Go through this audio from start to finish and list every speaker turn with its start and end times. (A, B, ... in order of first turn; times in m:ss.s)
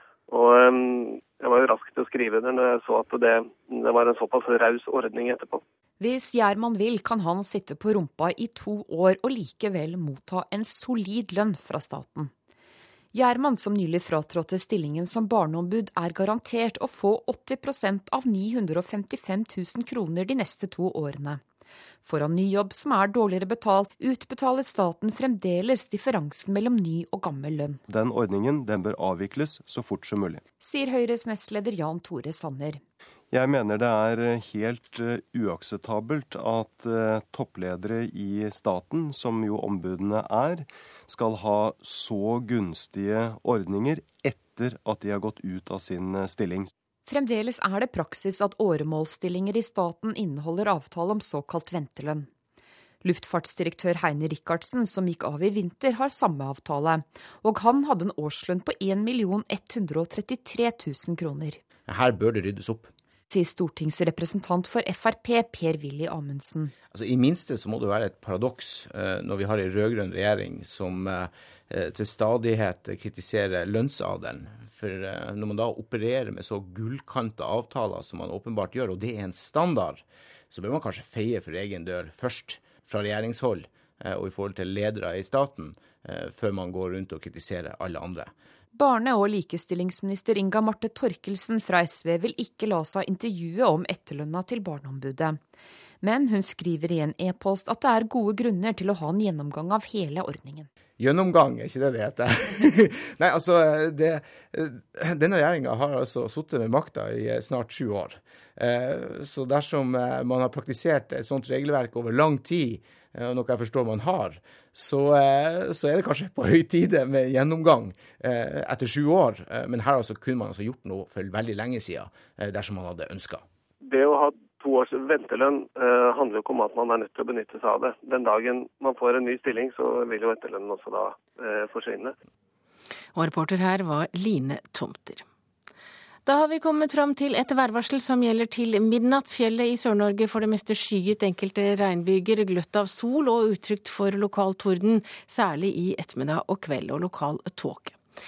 0:00.3-0:05.6 A
0:06.0-0:12.3 B
0:13.1-0:21.4 B
0:22.0-0:27.8 B
0:27.9-0:30.4 C
0:30.6-0:32.8 B
0:33.3-0:46.7 C
0:47.1-0:52.3 B
0:53.0-1:01.6 B
1:01.8-1:02.9 D
1:03.3-1:06.7 B
1:06.9-1:28.3 D
1:28.7-1:35.4 B
1:36.0-1:40.7 B
1:41.0-2:03.4 D
2:03.8-2:12.1 A
2:13.2-2:15.2 E
2:16.2-2:28.0 E